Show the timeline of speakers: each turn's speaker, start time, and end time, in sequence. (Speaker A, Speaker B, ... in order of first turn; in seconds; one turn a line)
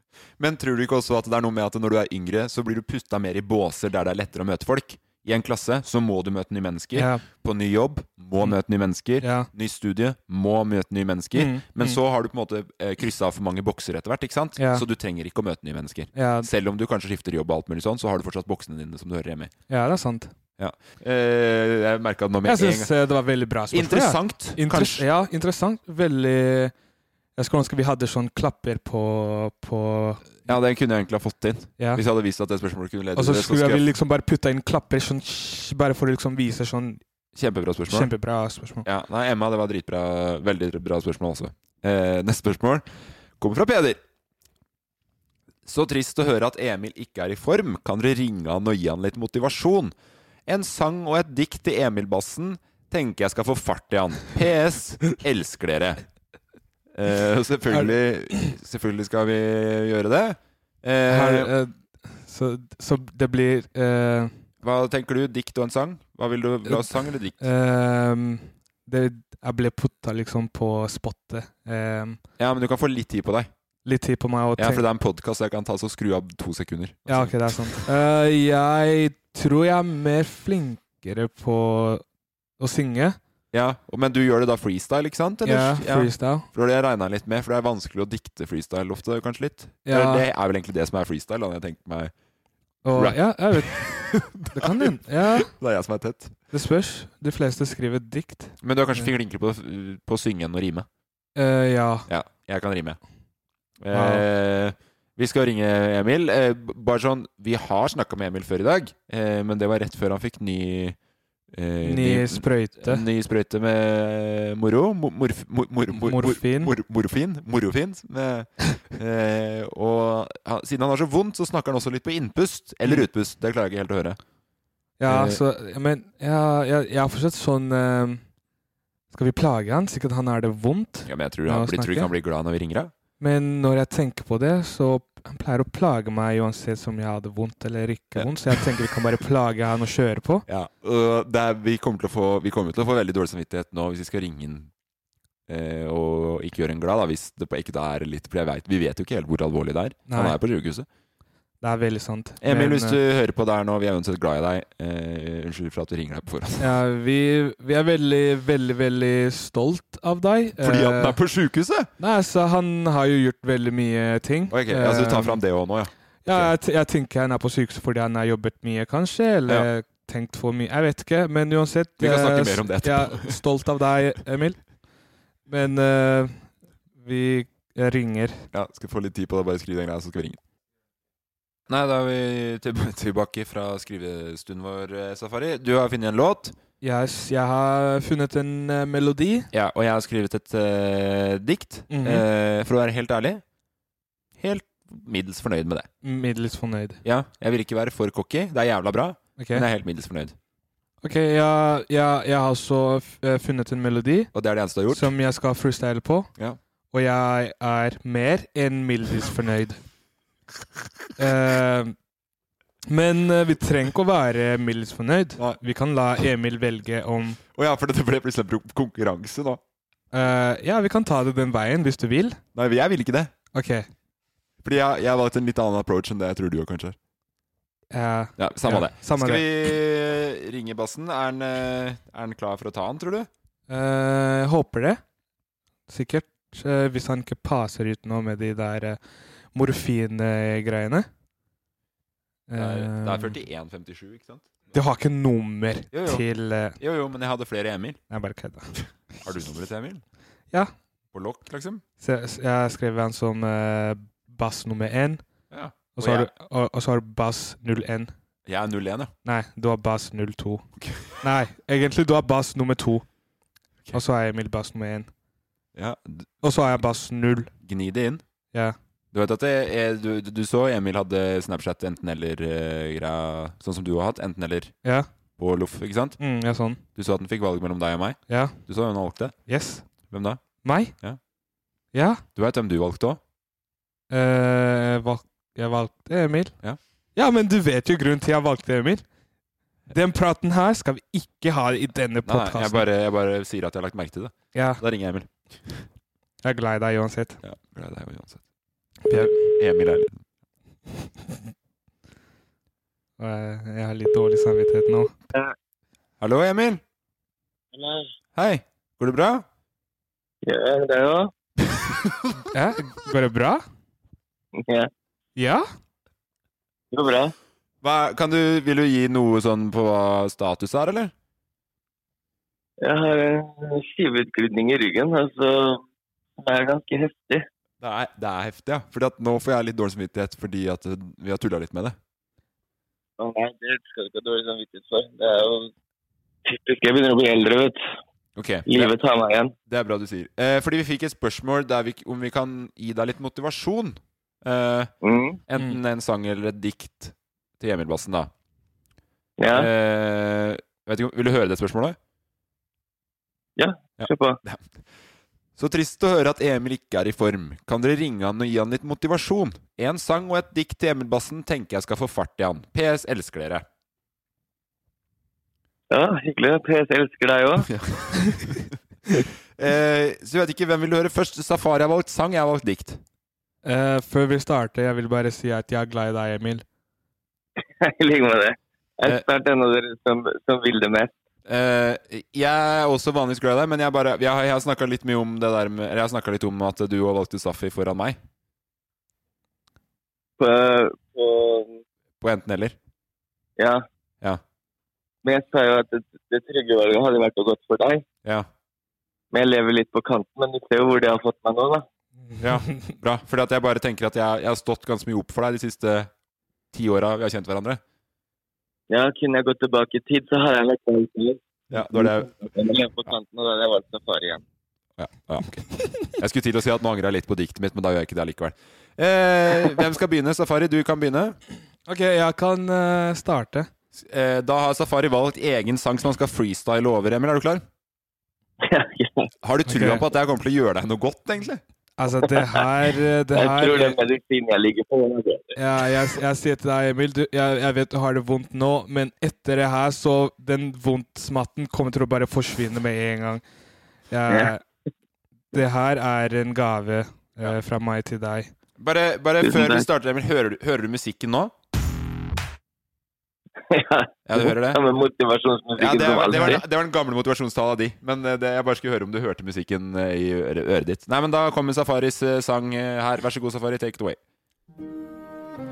Speaker A: 0.4-19.5
Speaker B: 6.9-7.2
Speaker B: 9.2-9.5
Speaker B: 11.3-12.0
Speaker B: 14.6-14.8
Speaker B: 16.1-16.5
Speaker B: 19.7-20.3
Speaker A: 20.6-22.9
Speaker B: 22.4-26.7
Speaker A: 23.7-25.1
Speaker B: 27.4-30.3
Speaker A: 30.4-33.9
Speaker B: 33.1-37.0
Speaker A: 37.4-38.1
Speaker B: 37.9-38.9
Speaker A: 38.8-42.9
Speaker A: 43.4-44.0
Speaker A: 45.7-49.9
Speaker A: 50.5-56.0
Speaker A: 56.9-61.5
Speaker B: 57.7-58.5
Speaker B: 61.1-64.3
Speaker A: 64.6-67.4
Speaker B: 66.7-72.2
Speaker A: 72.4-73.5
Speaker B: 73.8-74.9
Speaker A: 74.6-77.9
Speaker B: 77.1-82.0
Speaker B: 82.6-83.2
Speaker A: 83.5-92.1
Speaker B: 85.4-86.5
Speaker B: 89.9-90.3
Speaker B: 92.8-95.5
Speaker A: 92.9-96.3
Speaker B: 96.5-99.1
Speaker A: 98.6-100.9
Speaker B: 101.4-102.1
Speaker A: 102.1-103.0
Speaker A: 103.8-111.0
Speaker B: 103.9-104.3
Speaker A: 111.5-124.2
Speaker B: 111.8-113.0
Speaker B: 116.0-116.7
Speaker B: 125.0-128.2
Speaker A: 125.1-125.4
Speaker B: 129.1-132.1
Speaker A: 131.1-132.9
Speaker B: 133.2-140.4
Speaker A: 140.5-144.7
Speaker A: 145.5-150.9
Speaker B: 150.1-150.4
Speaker B: 151.6-153.0
Speaker A: 152.4-156.7
Speaker B: 156.6-161.2
Speaker A: 160.6-161.9
Speaker B: 162.0-165.4
Speaker A: 164.5-166.5
Speaker B: 166.2-174.6
Speaker A: 172.0-173.4
Speaker B: 175.5-176.5
Speaker B: 177.0-178.5
Speaker A: 178.5-180.4
Speaker A: 181.7-186.6
Speaker B: 186.8-189.5
Speaker A: 189.5-193.4
Speaker B: 191.9-192.2
Speaker A: 194.4-195.9
Speaker B: 196.0-197.0
Speaker A: 197.0-200.4
Speaker B: 199.4-199.7
Speaker B: 201.0-204.3
Speaker A: 204.3-205.1
Speaker B: 204.9-206.3
Speaker B: 206.9-209.8
Speaker B: 211.2-211.9
Speaker B: 212.9-217.4
Speaker A: 217.5-219.6
Speaker B: 220.1-222.4
Speaker A: 222.6-223.3
Speaker B: 223.5-223.9
Speaker A: 224.6-227.0
Speaker B: 227.9-229.5
Speaker A: 228.4-233.3
Speaker B: 233.7-235.0
Speaker B: 235.9-239.0
Speaker B: 239.5-241.1
Speaker B: 242.5-243.4
Speaker A: 242.6-244.5
Speaker B: 244.7-246.8
Speaker A: 245.9-246.2
Speaker A: 246.8-248.0
Speaker B: 248.1-248.7
Speaker A: 249.2-250.0
Speaker A: 251.1-251.8
Speaker B: 252.0-255.2
Speaker A: 255.5-256.3
Speaker B: 255.9-258.1
Speaker A: 258.5-259.1
Speaker B: 259.2-263.1
Speaker A: 260.8-261.1
Speaker B: 263.9-265.1
Speaker A: 265.8-266.3
Speaker B: 266.4-267.5
Speaker A: 267.6-268.2
Speaker A: 269.1-274.7
Speaker A: 275.4-276.2
Speaker B: 276.2-276.8
Speaker A: 277.0-279.4
Speaker B: 278.3-278.6
Speaker B: 279.5-279.9
Speaker A: 280.1-280.4
Speaker B: 280.6-280.9
Speaker B: 281.9-282.2
Speaker A: 282.4-283.2
Speaker B: 284.1-286.6
Speaker B: 287.1-289.0
Speaker B: 289.9-292.9
Speaker A: 292.2-295.9
Speaker B: 294.5-294.8
Speaker B: 296.4-297.4
Speaker A: 297.4-298.4
Speaker B: 299.1-299.5
Speaker A: 299.1-300.1
Speaker B: 303.2-305.1
Speaker A: 306.2-306.8
Speaker C: 307.7-308.1
Speaker A: 308.4-309.4
Speaker C: 310.4-311.3
Speaker A: 311.8-312.3
Speaker B: 312.5-313.6
Speaker C: 314.6-314.9
Speaker B: 315.4-315.6
Speaker C: 316.9-317.3
Speaker A: 317.8-321.1
Speaker C: 322.8-325.8
Speaker C: 326.4-327.5
Speaker A: 327.8-332.0
Speaker C: 333.2-335.7
Speaker C: 336.4-337.8
Speaker A: 338.4-338.9
Speaker C: 338.7-339.5
Speaker A: 339.7-344.9
Speaker C: 345.0-345.4
Speaker A: 345.5-348.3
Speaker C: 349.4-349.7
Speaker A: 349.5-352.0
Speaker C: 353.6-354.4
Speaker A: 354.0-354.7
Speaker A: 355.6-363.7
Speaker C: 365.9-367.7
Speaker A: 367.6-368.8
Speaker A: 369.6-373.0
Speaker B: 373.6-376.6
Speaker C: 377.8-381.1
Speaker A: 381.5-388.2
Speaker C: 390.4-391.8
Speaker A: 392.2-392.8
Speaker C: 393.6-393.9
Speaker C: 395.2-398.1
Speaker C: 399.3-401.9
Speaker B: 402.3-402.9
Speaker A: 402.4-406.1
Speaker A: 406.7-407.8
Speaker C: 408.9-414.4
Speaker A: 411.7-412.3
Speaker A: 415.0-421.4
Speaker B: 421.9-423.7
Speaker A: 423.9-427.6
Speaker C: 428.6-429.3
Speaker A: 429.4-431.6
Speaker B: 429.7-430.1
Speaker B: 432.0-434.0
Speaker C: 432.3-432.6
Speaker C: 433.3-435.6
Speaker B: 435.6-443.4
Speaker B: 444.1-444.6
Speaker B: 445.5-448.5
Speaker A: 448.8-451.5
Speaker C: 449.4-449.9
Speaker C: 453.7-456.6
Speaker A: 454.3-454.8
Speaker A: 455.8-464.2